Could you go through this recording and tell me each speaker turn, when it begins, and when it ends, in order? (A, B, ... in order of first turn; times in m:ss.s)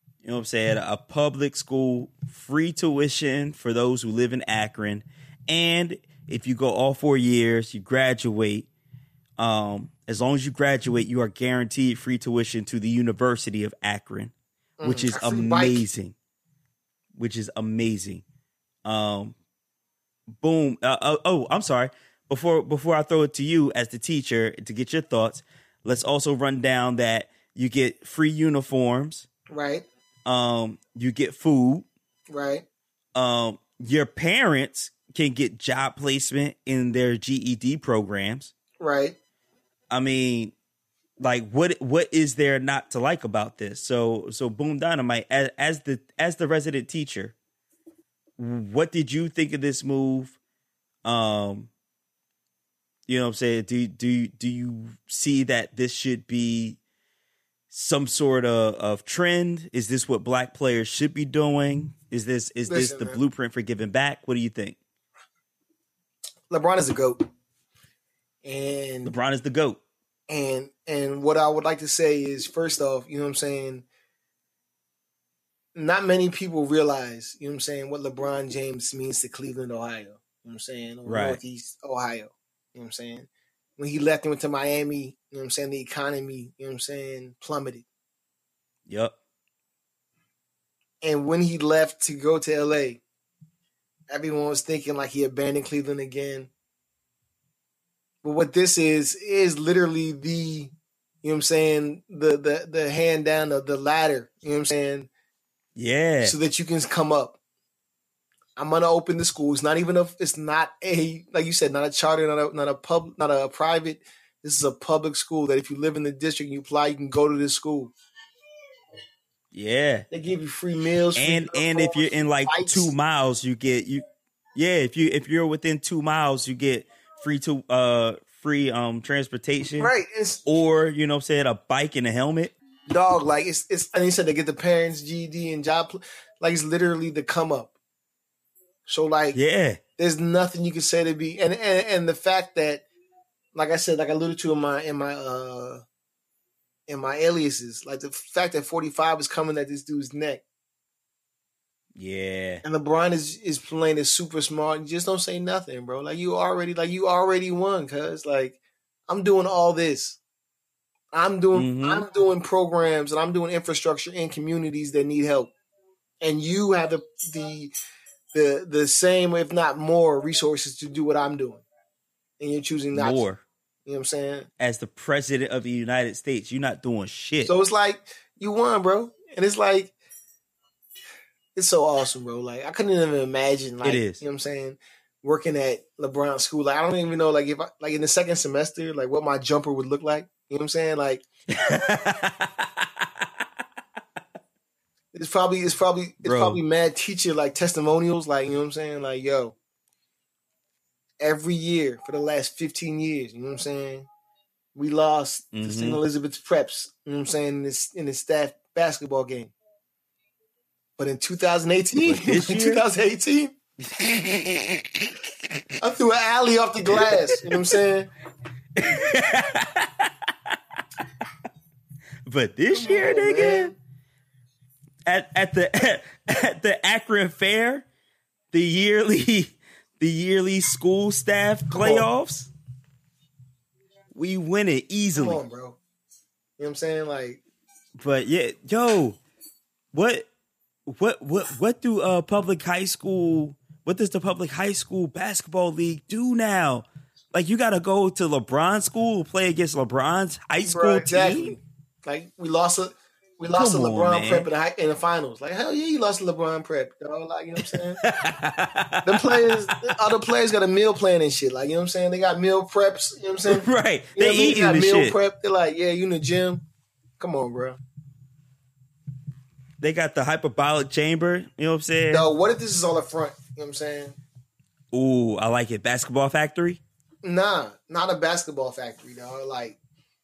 0:00.2-0:08.7 A
0:09.4-0:16.2 A
0:14.8-0:15.8 B
0:17.2-0:18.2 A
0:18.8-0:19.4 A
0:20.4-0:29.3 A
0:29.5-0:29.8 B
0:30.3-0:31.9 A
0:32.3-0:32.7 B
0:33.2-0:38.5 A
0:38.8-0:39.2 B
0:39.9-0:40.5 A
0:41.2-0:47.3 A
0:48.4-0:50.4 A
0:51.0-0:51.7 A
0:53.1-0:56.8 A
0:57.7-1:04.8 A
1:02.7-1:03.2 B
1:06.5-1:07.3 B
1:08.4-1:09.1 B
1:09.0-1:09.8 A
1:10.3-1:13.8 B
1:15.8-1:27.9 B
1:21.1-1:21.4 A
1:28.9-1:29.1 A
1:31.0-1:33.0 B
1:34.1-1:36.5 B
1:38.2-1:45.1 B
1:45.8-1:46.4 A
1:46.2-1:47.4 B
1:48.6-1:57.9 B
1:59.5-2:00.1 A
2:00.1-2:02.9 B
2:01.2-2:04.0 A
2:04.6-2:09.9 A
2:09.8-2:10.4 B
2:10.4-2:12.5 A
2:12.9-2:17.7 B
2:18.9-2:19.4 B
2:19.3-2:19.8 A
2:20.0-2:22.8 B
2:23.5-2:25.8 B
2:26.9-2:30.4 B
2:32.0-2:32.6 A
2:32.6-2:40.2 B
2:41.1-2:45.5 B
2:41.5-2:42.1 A
2:46.2-2:47.7 B
2:48.3-2:51.6 B
2:52.4-2:53.2 B
2:52.9-2:53.4 A
2:53.9-2:54.5 B
2:54.6-2:57.5 A
2:57.4-2:59.9 B
3:01.6-3:11.2 B
3:03.8-3:04.2 A
3:11.5-3:12.8 A
3:15.1-3:19.6 B
3:16.2-3:16.6 A
3:21.2-3:24.1 B
3:24.8-3:29.5 B
3:25.5-3:26.0 A
3:31.0-3:33.6 B
3:32.0-3:32.8 A
3:33.9-3:35.1 A
3:35.8-3:38.1 B
3:37.0-3:37.5 A
3:38.8-3:40.1 A
3:42.3-3:43.7 A
3:42.7-3:43.8 B
3:45.1-3:47.8 A
3:48.5-3:52.5 A
3:51.7-3:52.1 B
3:54.1-3:55.4 A
3:55.2-3:55.8 B
3:56.6-3:57.4 B
3:58.0-3:59.2 A
3:59.9-4:00.3 A
4:00.9-4:11.6 A
4:10.7-4:18.0 B
4:13.5-4:14.5 A
4:17.7-4:19.8 A
4:19.0-4:26.6 B
4:23.5-4:25.2 A
4:27.2-4:27.8 B
4:29.8-4:32.3 A
4:32.1-4:34.2 B
4:34.9-4:36.8 A
4:37.2-4:39.8 B